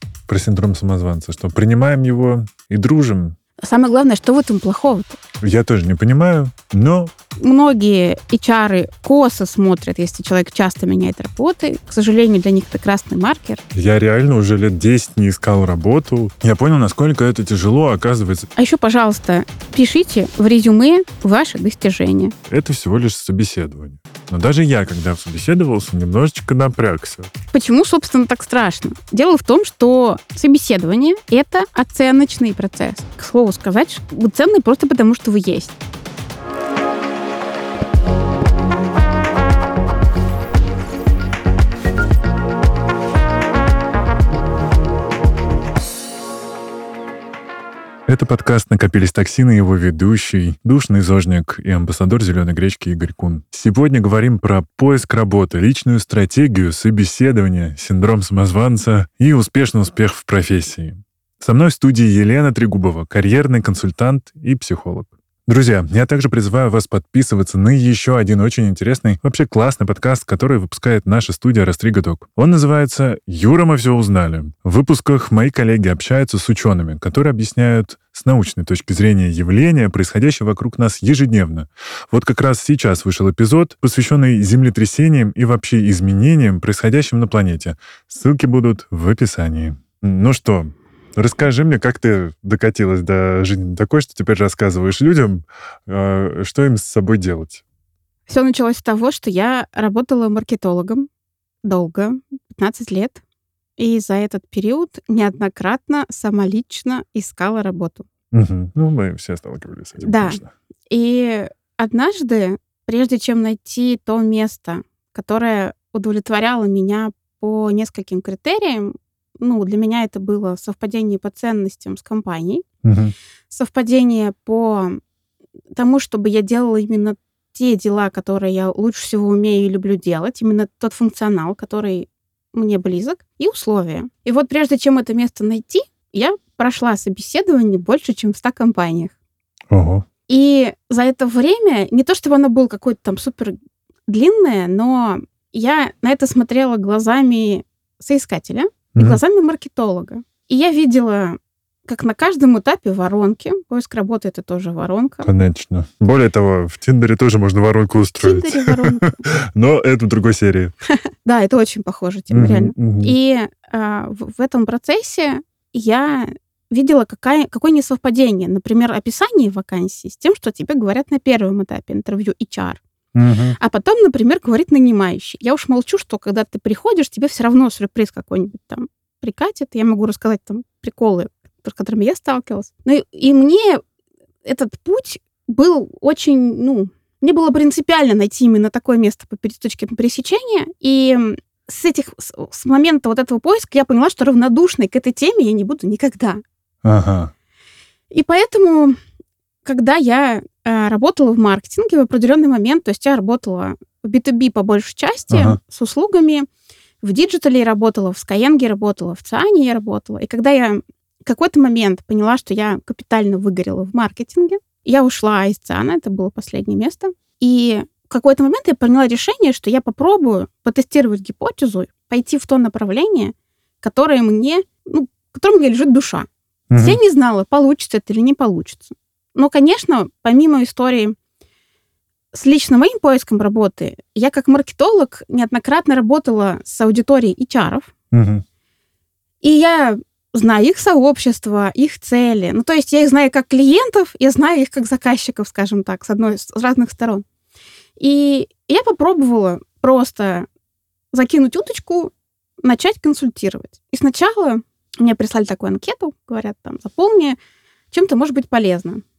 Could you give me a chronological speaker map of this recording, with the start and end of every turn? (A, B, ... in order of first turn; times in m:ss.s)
0:00.3-0:03.4 A
0:03.6-0:05.2 B
0:05.4-0:07.1 A
0:07.4-0:13.6 B
0:13.7-0:18.5 A
0:18.6-0:22.3 B
0:22.5-0:27.3 A
0:27.5-0:35.8 B
0:48.1-1:37.6 A
1:38.3-1:41.1 B
1:41.6-1:43.2 B
1:43.8-1:48.1 B
1:48.3-1:50.5 A
1:50.0-2:02.6 B
2:02.8-2:03.1 A
2:03.5-2:05.0 B
2:05.8-2:19.1 B
2:19.7-2:20.0 A
2:20.3-2:23.6 B
2:24.1-2:35.3 B
2:29.0-2:29.2 A
2:35.2-2:40.7 A
2:38.2-2:39.2 B
2:41.2-2:52.8 B
2:42.3-2:43.1 A
2:53.2-2:53.6 A
2:53.6-3:03.8 B
3:04.4-3:16.4 B
3:16.8-3:17.3 A
3:18.1-3:19.0 B
3:19.6-3:26.5 B
3:25.3-3:25.6 A
3:27.0-3:51.2 B
3:46.7-3:47.0 A
3:52.3-3:57.9 B
3:58.1-3:58.4 A
3:59.4-4:07.2 B
4:08.0-4:10.5 B
4:11.1-4:12.1 B
4:12.6-4:17.4 B
4:17.9-4:19.0 B